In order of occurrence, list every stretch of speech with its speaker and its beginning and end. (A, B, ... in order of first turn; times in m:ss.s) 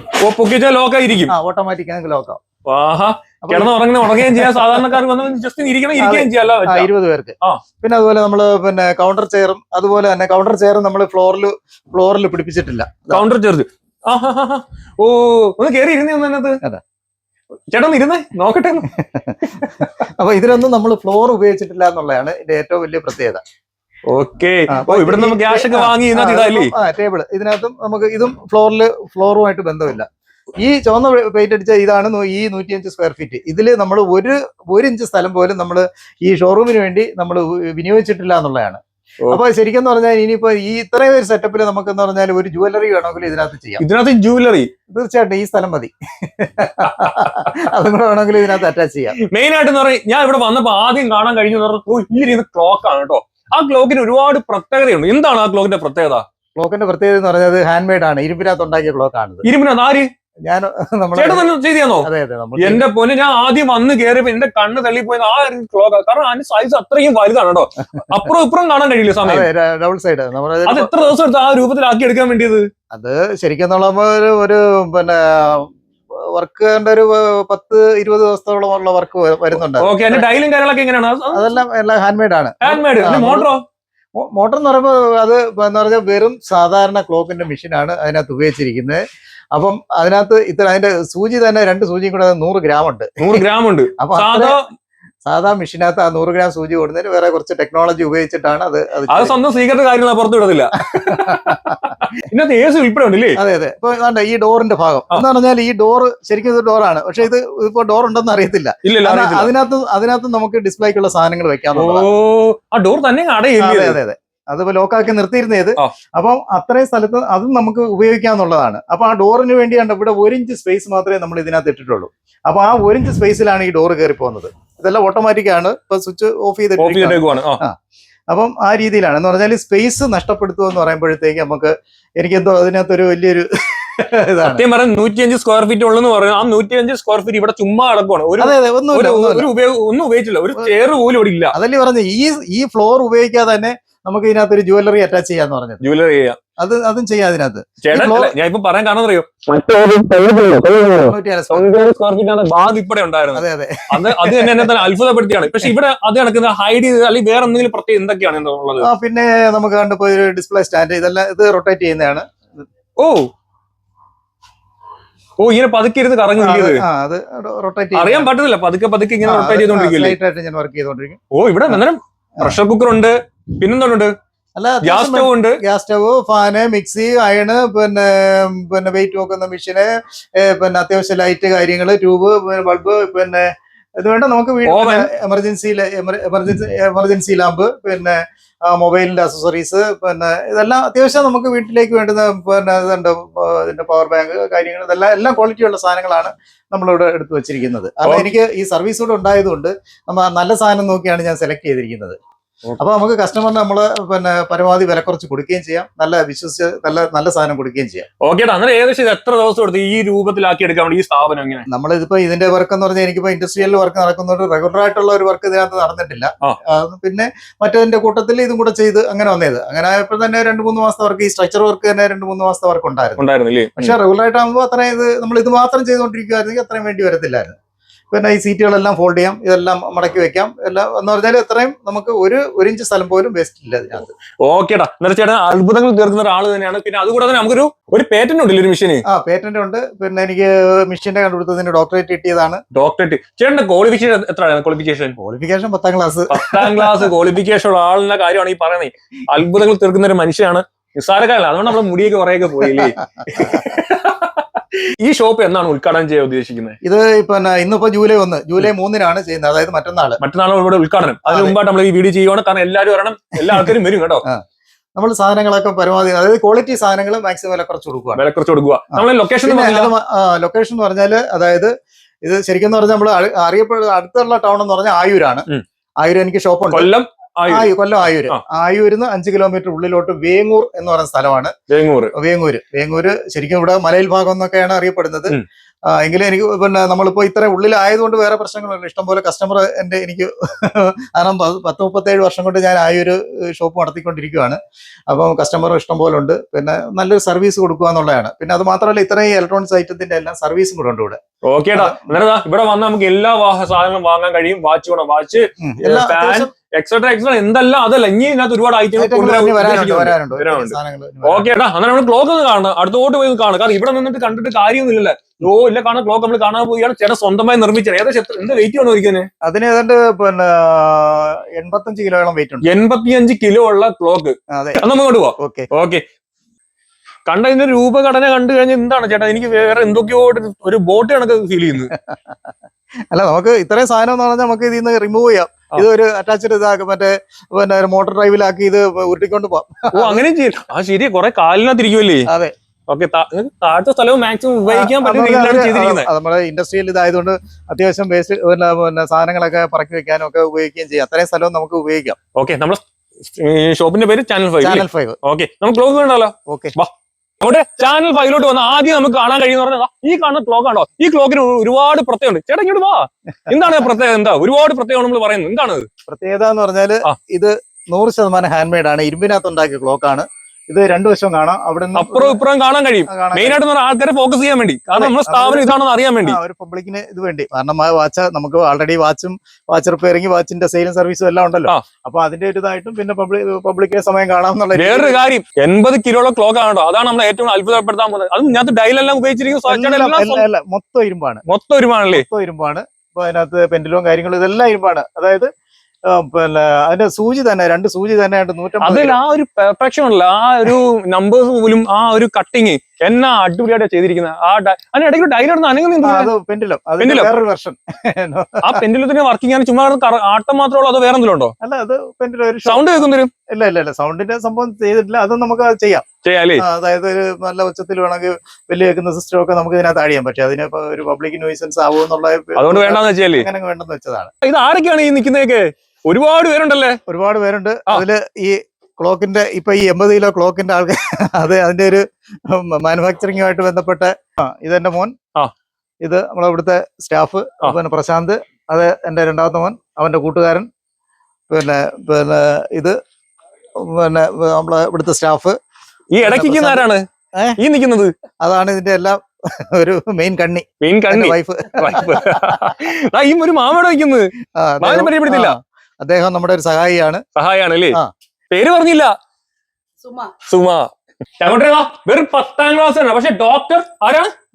0:00.2-0:01.3 A
0:01.3-0:02.4 B
0:02.7-0:06.9 A
0:03.4-0:05.0 B
0:06.0-0:13.2 B
0:13.1-0:16.6 A
0:17.7-0:19.0 A
0:18.9-0:23.4 B
0:19.5-0:19.9 A
0:24.1-0:26.7 A
0:24.7-0:30.1 B
0:30.6-0:43.8 B
0:43.8-0:44.7 A
0:44.9-0:49.2 B
0:46.9-0:47.4 A
0:49.2-0:56.2 A
0:56.6-0:59.4 B
0:59.4-1:00.1 A
1:00.5-1:01.5 B
1:01.2-1:09.5 A
1:02.0-1:02.9 B
1:09.2-1:11.0 B
1:10.7-1:12.6 A
1:12.9-1:20.3 B
1:19.8-1:21.6 A
1:21.3-1:23.5 B
1:22.6-1:23.6 A
1:24.2-1:29.0 B
1:29.5-1:33.4 B
1:33.2-1:34.6 A
1:34.0-1:34.6 B
1:35.2-1:39.4 B
1:39.1-1:43.4 A
1:40.9-1:41.8 B
1:43.4-1:52.1 B
1:48.8-1:49.5 A
1:51.8-1:54.0 A
1:53.6-2:07.8 B
2:06.8-2:07.6 A
2:08.3-2:14.6 B
2:14.5-2:21.6 A
2:18.4-2:19.5 B
2:21.5-2:25.8 B
2:25.8-2:26.4 A
2:26.6-2:28.3 B
2:27.8-2:38.9 A
2:31.0-2:31.7 B
2:33.4-2:34.8 B
2:38.8-2:42.5 B
2:43.0-2:43.3 A
2:45.4-2:46.8 A
2:46.4-2:48.3 B
2:48.0-2:50.2 A
2:49.2-2:51.8 B
2:51.3-2:54.1 A
2:54.6-3:22.2 B
2:54.8-2:55.6 A
3:04.6-3:05.1 A
3:18.0-3:18.3 A
3:22.8-3:28.1 B
3:28.2-3:31.7 A
3:31.7-3:43.2 B
3:43.2-3:44.0 A
3:43.8-3:47.6 B
3:48.1-3:54.2 B
3:54.4-3:59.0 A
3:59.1-4:02.6 B
4:02.7-4:05.2 A
4:05.2-4:07.1 B
4:06.3-4:16.8 A
4:12.6-4:13.7 B
4:16.8-4:20.2 B
4:20.2-4:24.2 A
4:21.3-4:21.6 B
4:23.5-4:24.4 B
4:25.0-4:28.2 B
4:28.2-4:29.9 A
4:28.9-4:31.7 B
4:32.2-4:35.5 B
4:36.0-4:36.9 B
4:36.7-4:37.7 A
4:37.5-4:41.5 B
4:41.7-4:42.1 A
4:42.1-4:54.6 B
4:55.1-5:01.2 B
5:01.4-5:19.3 A
5:01.7-5:02.1 B
5:05.6-5:06.5 B
5:09.0-5:11.5 B
5:19.4-5:22.6 B
5:22.6-5:26.0 A
5:24.5-5:24.8 B
5:25.4-5:25.7 B
5:27.3-5:31.9 A
5:31.9-5:32.4 B
5:33.1-5:40.2 B
5:39.9-5:42.3 A
5:42.3-5:42.5 B
5:42.9-5:46.1 A
5:44.7-5:52.2 B
5:52.4-6:05.9 A
5:54.6-5:55.2 B
5:56.5-5:56.7 B
6:06.1-6:12.4 B
6:12.0-6:16.4 A
6:13.1-6:13.6 B
6:15.0-6:15.7 B
6:16.2-6:25.2 B
6:24.8-6:30.4 A
6:29.7-6:31.4 B
6:31.5-6:32.2 A
6:32.1-6:35.5 B
6:36.1-6:39.2 B
6:38.8-6:46.3 A
6:46.0-6:48.8 B
6:47.0-6:47.3 A
6:48.6-6:51.6 A
6:51.6-6:56.0 B
6:52.6-6:53.3 A
6:56.2-6:56.6 A
6:56.6-7:04.3 B
7:02.6-7:03.5 A
7:04.4-7:07.0 A
7:07.1-7:15.1 B
7:16.0-7:20.7 B
7:21.5-7:23.0 B
7:23.8-7:25.6 B
7:26.1-7:27.0 A
7:26.2-7:27.6 B
7:27.6-7:28.1 A
7:28.4-7:32.7 B
7:30.8-7:35.6 A
7:34.6-7:37.2 B
7:37.4-7:38.0 A
7:38.5-7:39.1 A
7:40.4-7:40.9 A
7:41.4-7:44.3 A